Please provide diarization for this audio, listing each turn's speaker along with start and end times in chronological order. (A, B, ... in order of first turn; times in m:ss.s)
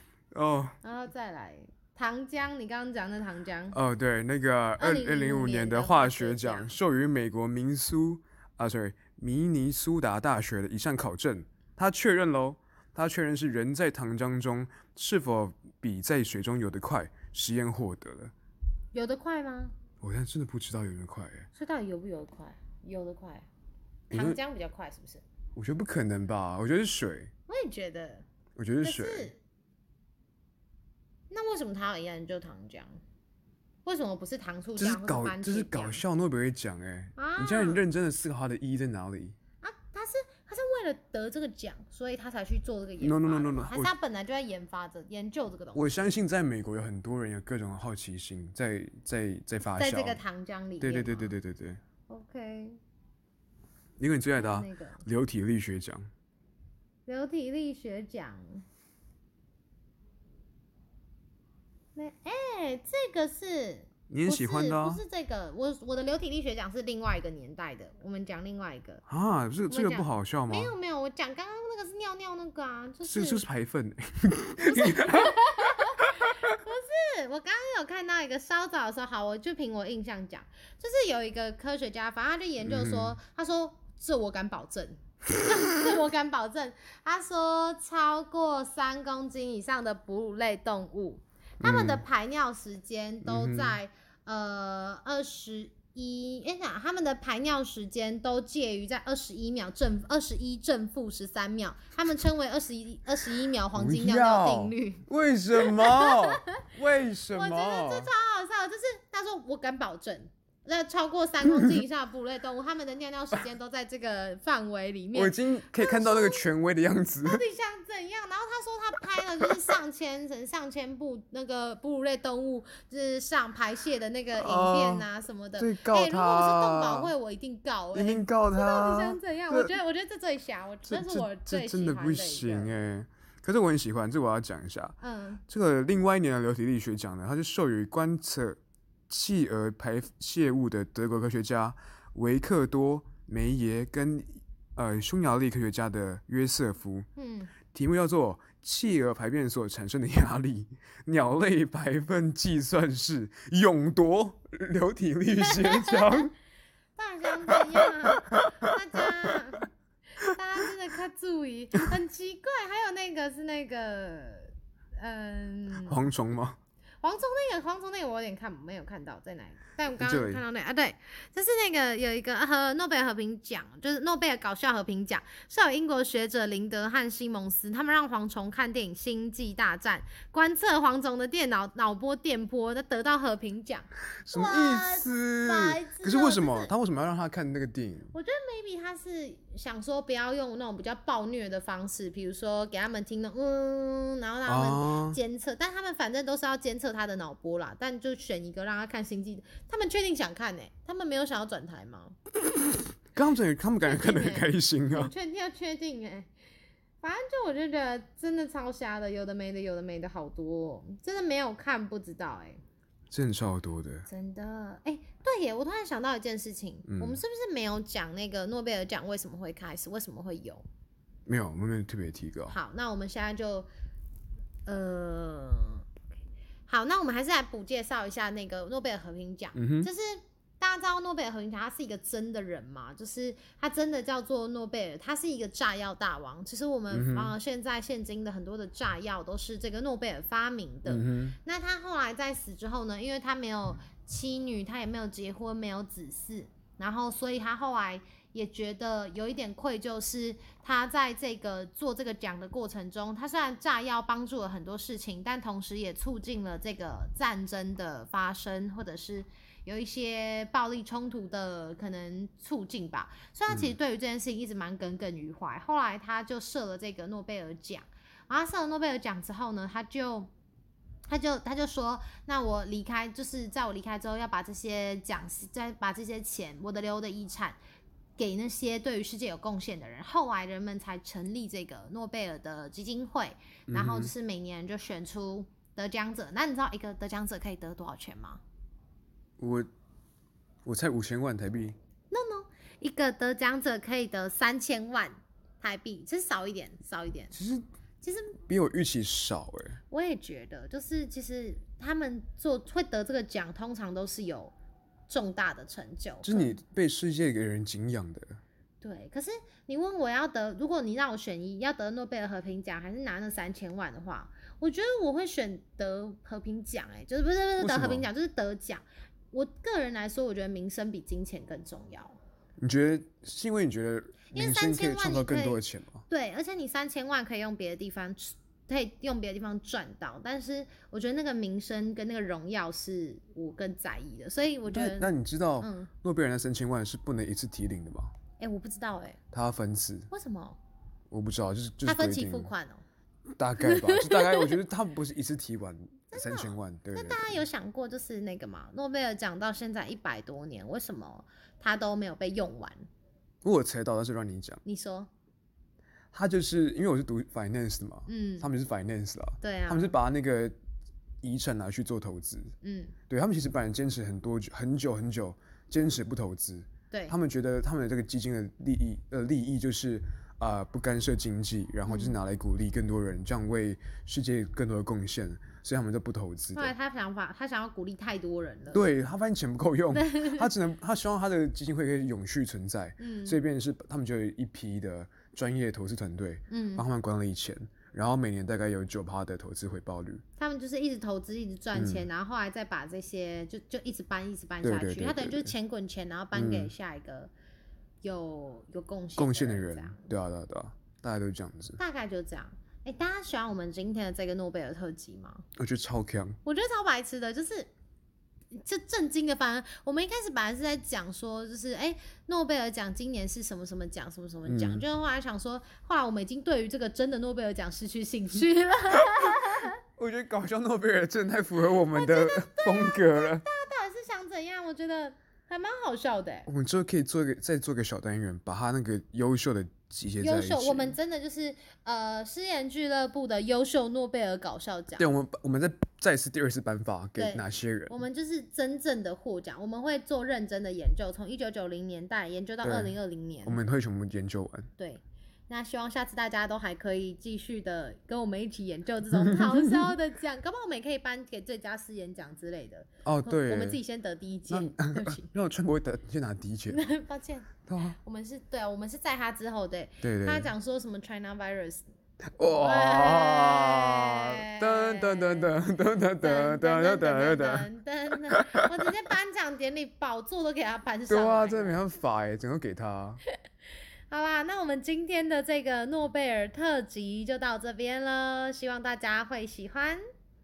0:00.3-0:00.8 A
0:00.8-0:03.8 B
0:03.7-0:18.3 A
0:04.8-0:06.7 B
0:18.9-0:19.7 B
0:20.0-0:21.5 A
0:21.6-0:23.5 B
0:24.1-0:25.2 B
0:24.1-0:24.4 A
0:25.6-0:27.3 A
0:27.5-0:28.2 B
0:28.6-0:29.3 A
0:28.8-0:29.4 B
0:31.3-0:33.0 B
0:33.8-0:36.0 B
0:34.8-0:39.4 A
0:37.2-0:37.8 B
0:39.6-0:46.2 B
0:43.0-0:43.9 A
0:45.8-0:50.2 A
0:49.6-0:51.3 B
0:50.8-0:51.8 A
0:52.1-0:52.8 B
0:54.0-0:56.1 A
0:54.4-0:55.0 B
0:57.1-0:58.6 B
1:02.0-1:09.0 B
1:04.1-1:05.0 A
1:09.1-1:10.7 A
1:09.7-1:13.4 B
1:13.0-1:16.5 A
1:14.6-1:46.7 B
1:22.6-1:23.2 A
1:31.6-1:32.0 A
1:33.2-1:33.8 A
1:43.7-1:48.1 A
1:47.3-1:56.5 B
1:55.1-1:57.4 A
1:57.2-2:12.7 B
2:04.3-2:07.1 A
2:07.9-2:09.8 A
2:10.9-2:15.0 A
2:15.0-2:15.4 B
2:15.5-2:27.1 A
2:27.2-2:27.6 B
2:27.7-2:36.3 A
2:35.4-2:36.2 B
2:37.0-2:39.7 B
2:37.5-2:39.4 A
2:40.2-2:46.0 B
2:45.7-2:46.6 A
2:47.0-3:06.7 B
2:50.0-2:50.4 A
3:04.3-3:08.1 A
3:08.1-3:22.2 B
3:14.5-3:15.2 A
3:23.1-3:25.1 A
3:23.8-3:26.3 B
3:27.0-3:32.6 B
3:33.1-3:34.1 A
3:34.1-3:40.7 B
3:36.9-3:37.2 A
3:41.3-3:42.6 A
3:42.5-3:43.7 B
3:44.7-3:45.9 B
3:46.7-4:30.3 B
3:49.6-3:49.9 A
3:56.9-3:57.3 A
4:00.9-4:01.4 A
4:23.5-4:23.8 A
4:31.1-4:37.6 B
4:38.2-4:48.4 B
4:43.7-4:44.1 A
4:49.4-4:49.7 A
4:50.6-4:51.8 A
4:52.1-4:57.3 B
4:57.3-4:57.6 A
4:58.0-4:58.4 B
4:58.4-4:59.8 A
4:59.9-5:04.5 B
5:05.1-5:06.6 B
5:06.2-5:08.4 A
5:08.8-5:22.2 B
5:17.6-5:18.1 A
5:22.6-5:26.0 A
5:24.3-5:35.9 B
5:34.7-5:38.1 A
5:38.4-5:39.2 B
5:39.3-5:40.1 A
5:40.1-5:40.6 B
5:41.1-5:42.5 A
5:41.8-5:42.8 B
5:43.4-5:47.4 A
5:43.6-5:44.5 B
5:46.1-5:52.9 B
5:53.4-5:54.6 A
5:54.6-5:55.1 B
5:56.1-6:00.6 A
5:58.1-5:58.5 B
5:59.4-6:00.0 B
6:01.2-6:02.5 A
6:02.6-6:03.0 B
6:03.1-6:16.7 A
6:11.9-6:12.2 B
6:16.6-6:18.8 B
6:18.7-6:30.2 A
6:19.9-6:20.5 B
6:23.0-6:23.4 B
6:26.5-6:26.8 B
6:30.4-6:37.3 B
6:31.8-6:32.1 A
6:34.6-6:35.5 A
6:36.3-6:36.7 A
6:38.0-6:40.1 B
6:39.2-6:41.8 A
6:41.8-6:45.4 B
6:45.6-6:46.4 A
6:46.4-6:47.7 B
6:48.5-6:59.8 B
6:54.5-6:54.8 A
7:00.0-7:03.4 A
7:01.9-7:06.5 B
7:06.5-7:11.0 A
7:10.2-7:15.1 B
7:15.0-7:18.0 A
7:17.2-7:23.6 B
7:22.6-7:24.7 A
7:24.8-7:35.3 B
7:29.2-7:29.8 A
7:33.0-7:33.8 A
7:34.5-7:36.8 A
7:36.7-7:41.8 B
7:37.7-7:38.0 A
7:40.0-7:40.5 A
7:42.4-7:47.7 A
7:42.4-7:45.5 B
7:46.2-7:51.8 B
7:48.3-7:48.6 A
7:51.1-7:53.2 A
7:54.1-8:00.0 B